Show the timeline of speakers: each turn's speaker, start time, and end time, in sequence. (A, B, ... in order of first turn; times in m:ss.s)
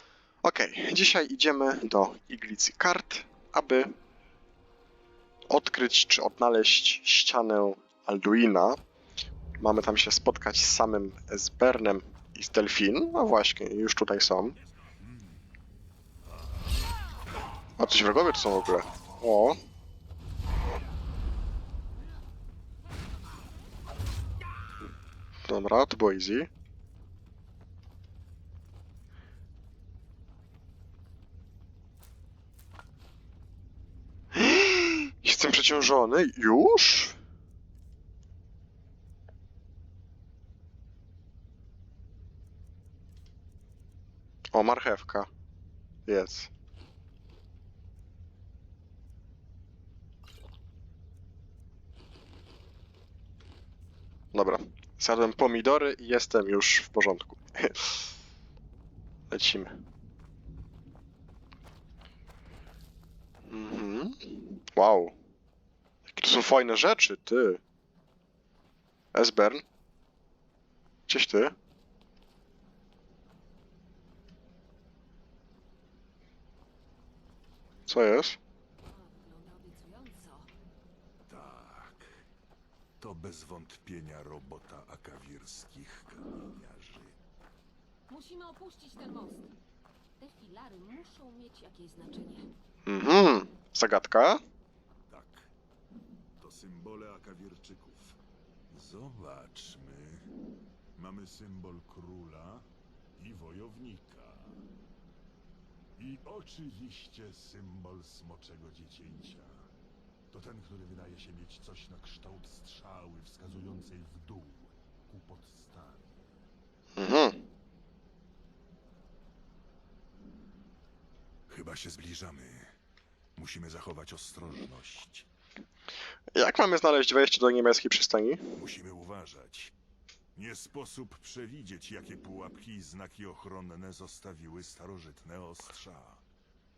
0:00.4-0:03.9 A
0:05.5-0:08.8 A
0:09.6-0:14.6 A
0:14.9-0:15.5 B
0:17.8-0:19.6 A
0:25.5-0:26.5 A
0:34.3-0:37.2 A
0:44.5-0:45.3 A
0:46.0-0:46.5 A
0:54.3-0:58.1 A
0:59.3-0:59.8 A
1:03.5-1:05.2 A
1:06.1-1:07.6 A
1:09.1-1:09.6 A
1:11.1-1:11.5 A
1:17.9-1:18.4 A
1:18.8-1:20.5 C
1:21.3-1:22.2 B
1:23.0-1:27.2 B
1:28.1-1:29.5 C
1:30.2-1:32.5 C
1:32.8-1:34.4 A
1:35.1-1:35.5 B
1:36.4-1:38.2 B
1:38.7-1:40.3 B
1:41.0-1:42.6 B
1:43.2-1:44.6 B
1:46.0-1:49.6 B
1:50.3-1:56.2 B
1:56.9-1:57.4 A
2:01.5-2:02.7 B
2:03.4-2:05.3 B
2:06.3-2:08.5 A
2:08.5-2:09.7 B
2:10.3-2:16.2 B